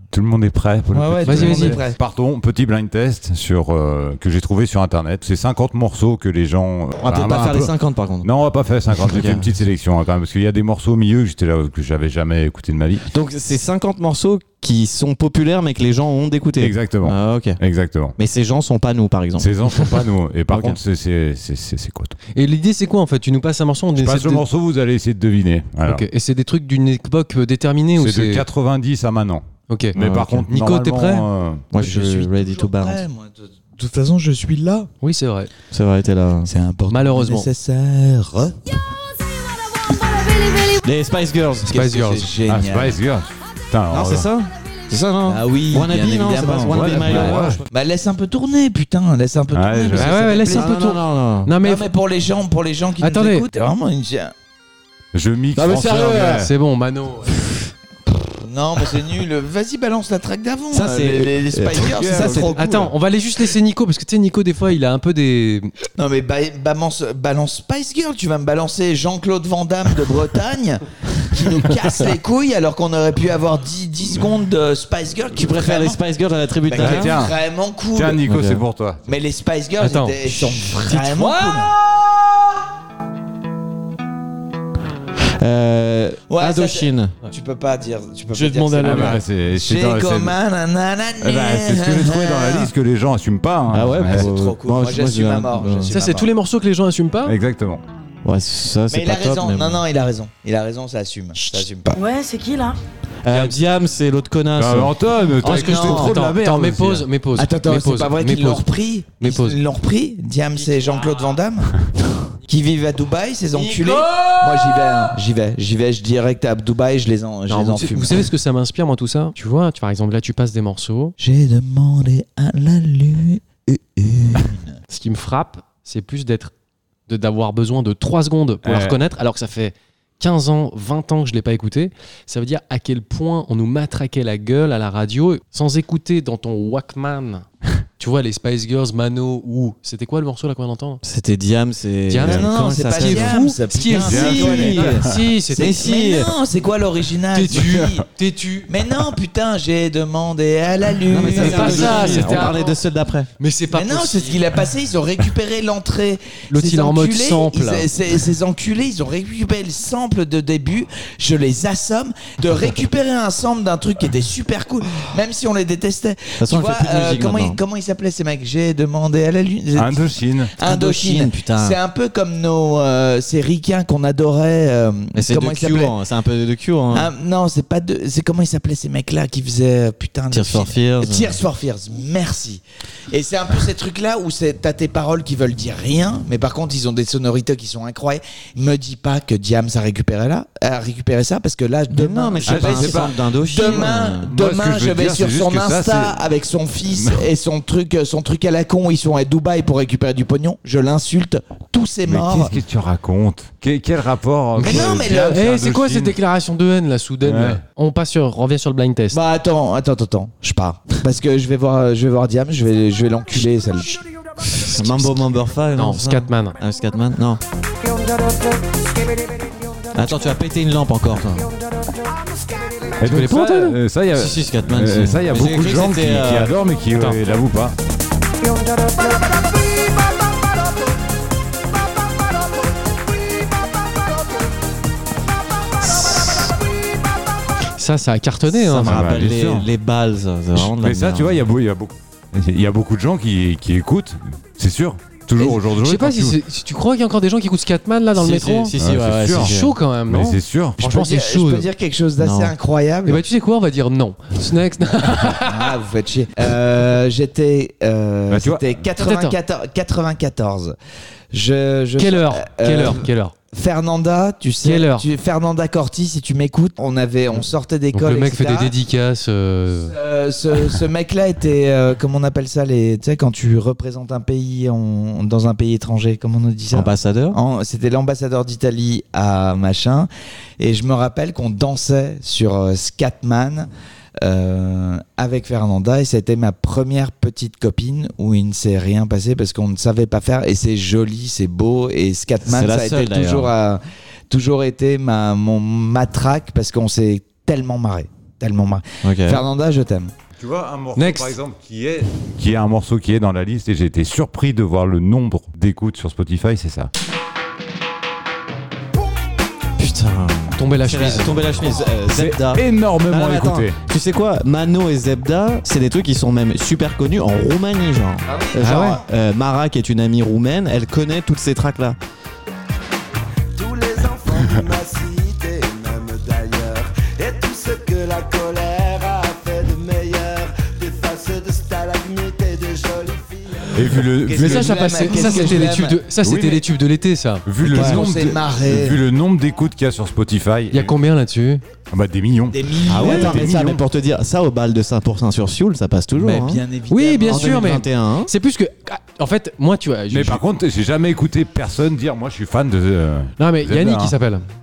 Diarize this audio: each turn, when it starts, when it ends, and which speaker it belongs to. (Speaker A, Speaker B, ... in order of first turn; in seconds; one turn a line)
Speaker A: 0.1-13.1
Speaker B: 0.9-2.0
Speaker C: 1.3-1.8
Speaker D: 7.0-8.3
Speaker D: 8.9-9.5
Speaker D: 13.1-17.6
Speaker A: 16.6-18.2
Speaker D: 18.2-20.8
Speaker A: 19.4-22.2
Speaker C: 22.4-24.4
Speaker A: 24.0-26.1
Speaker C: 25.9-28.4
Speaker A: 28.0-31.7
Speaker C: 29.7-29.9
Speaker D: 30.0-30.5
Speaker C: 30.5-31.3
Speaker D: 31.7-33.0
Speaker B: 31.8-34.9
Speaker C: 35.0-35.5
Speaker D: 35.7-36.5
Speaker B: 36.5-38.6
Speaker C: 36.9-37.5
Speaker D: 40.8-41.7
Speaker C: 41.7-42.3
Speaker B: 41.7-43.0
Speaker A: 42.5-44.3
Speaker D: 43.9-47.6
Speaker B: 45.3-50.7
Speaker A: 46.7-47.6
Speaker A: 49.5-50.1
Speaker C: 50.0-51.9
Speaker D: 50.5-51.5
Speaker B: 51.6-54.3
Speaker C: 53.0-53.5
Speaker A: 55.1-56.5
Speaker D: 55.6-56.4
Speaker C: 55.9-57.5
Speaker B: 58.1-62.6
Speaker D: 60.7-62.9
Speaker A: 61.7-62.5
Speaker C: 62.5-65.7
Speaker B: 66.0-76.0
Speaker D: 75.4-77.1
Speaker B: 76.6-78.2
Speaker A: 76.8-77.4
Speaker A: 77.9-79.0
Speaker D: 78.2-78.6
Speaker B: 79.1-81.7
Speaker C: 79.8-81.7
Speaker D: 85.4-87.2
Speaker B: 86.3-92.7
Speaker C: 88.3-89.2
Speaker A: 88.8-90.3
Speaker A: 91.2-94.3
Speaker D: 93.7-95.9
Speaker B: 94.0-96.3
Speaker C: 95.9-97.3
Speaker A: 97.3-97.8
Speaker D: 98.2-99.8
Speaker B: 98.9-102.0
Speaker C: 101.4-101.6
Speaker D: 103.2-104.9
Speaker C: 103.3-103.6
Speaker A: 104.6-107.1
Speaker B: 105.4-106.2
Speaker C: 105.4-108.7
Speaker B: 107.4-111.8
Speaker C: 109.2-109.6
Speaker B: 112.5-118.3
Speaker C: 117.5-121.1
Speaker B: 121.2-124.8
Speaker C: 124.9-126.5
Speaker C: 127.1-137.5
Speaker A: 128.7-129.0
Speaker C: 138.0-141.0
Speaker D: 141.0-143.4
Speaker C: 142.1-145.8
Speaker B: 142.2-148.1
Speaker D: 143.9-146.3
Speaker A: 144.0-145.1
Speaker C: 147.3-148.7
Speaker B: 148.7-152.5
Speaker D: 151.1-153.3
Speaker C: 151.3-152.8
Speaker A: 151.5-152.2
Speaker C: 153.4-154.4
Speaker B: 153.7-176.0
Speaker C: 156.5-157.9
Speaker D: 166.4-167.6
Speaker A: 169.8-170.6
Speaker D: 170.6-171.8
Speaker D: 175.2-177.1
Speaker B: 176.9-202.6
Speaker D: 180.3-181.4
Speaker D: 191.9-194.3
Speaker A: 192.4-193.2
Speaker A: 193.7-196.2
Speaker A: 196.9-197.3
Speaker A: 202.1-206.2
Speaker C: 204.6-209.2
Speaker B: 204.6-205.4
Speaker A: 207.2-207.6
Speaker B: 209.1-214.0
Speaker D: 214.4-217.4
Speaker C: 215.8-216.6
Speaker D: 219.9-221.5
Speaker A: 223.0-227.8
Speaker C: 223.0-223.8
Speaker D: 224.1-226.5
Speaker C: 237.8-239.0
Speaker D: 238.5-241.4
Speaker A: 238.8-239.7
Speaker A: 240.6-246.4
Speaker C: 245.4-248.7
Speaker D: 248.2-249.8
Speaker A: 248.7-249.5
Speaker C: 249.4-251.7
Speaker A: 250.1-250.8
Speaker B: 250.8-253.2
Speaker D: 252.2-252.5
Speaker C: 253.1-255.8
Speaker B: 255.4-260.8
Speaker A: 258.3-258.8
Speaker C: 259.0-259.4
Speaker B: 261.3-268.8
Speaker C: 262.0-263.3
Speaker C: 264.6-265.1
Speaker C: 267.9-269.9
Speaker B: 269.8-283.7
Speaker D: 276.7-277.4
Speaker B: 284.2-300.1
Speaker D: 292.4-293.5
Speaker D: 299.0-299.4
Speaker A: 300.4-306.9
Speaker C: 301.0-301.4
Speaker D: 309.8-322.0
Speaker C: 310.6-311.4
Speaker A: 312.1-313.8
Speaker B: 318.3-319.0
Speaker C: 318.6-319.0
Speaker E: 323.6-333.7
Speaker A: 333.7-335.6
Speaker B: 334.2-336.0
Speaker C: 334.3-337.4
Speaker A: 336.2-336.7
Speaker A: 337.5-340.9
Speaker B: 337.6-339.0
Speaker C: 340.7-341.6
Speaker A: 341.9-343.8
Speaker B: 342.5-343.5
Speaker D: 342.9-346.6
Speaker B: 346.1-347.8
Speaker C: 346.9-350.4
Speaker D: 347.3-348.3
Speaker A: 350.1-354.1
Speaker C: 353.4-354.4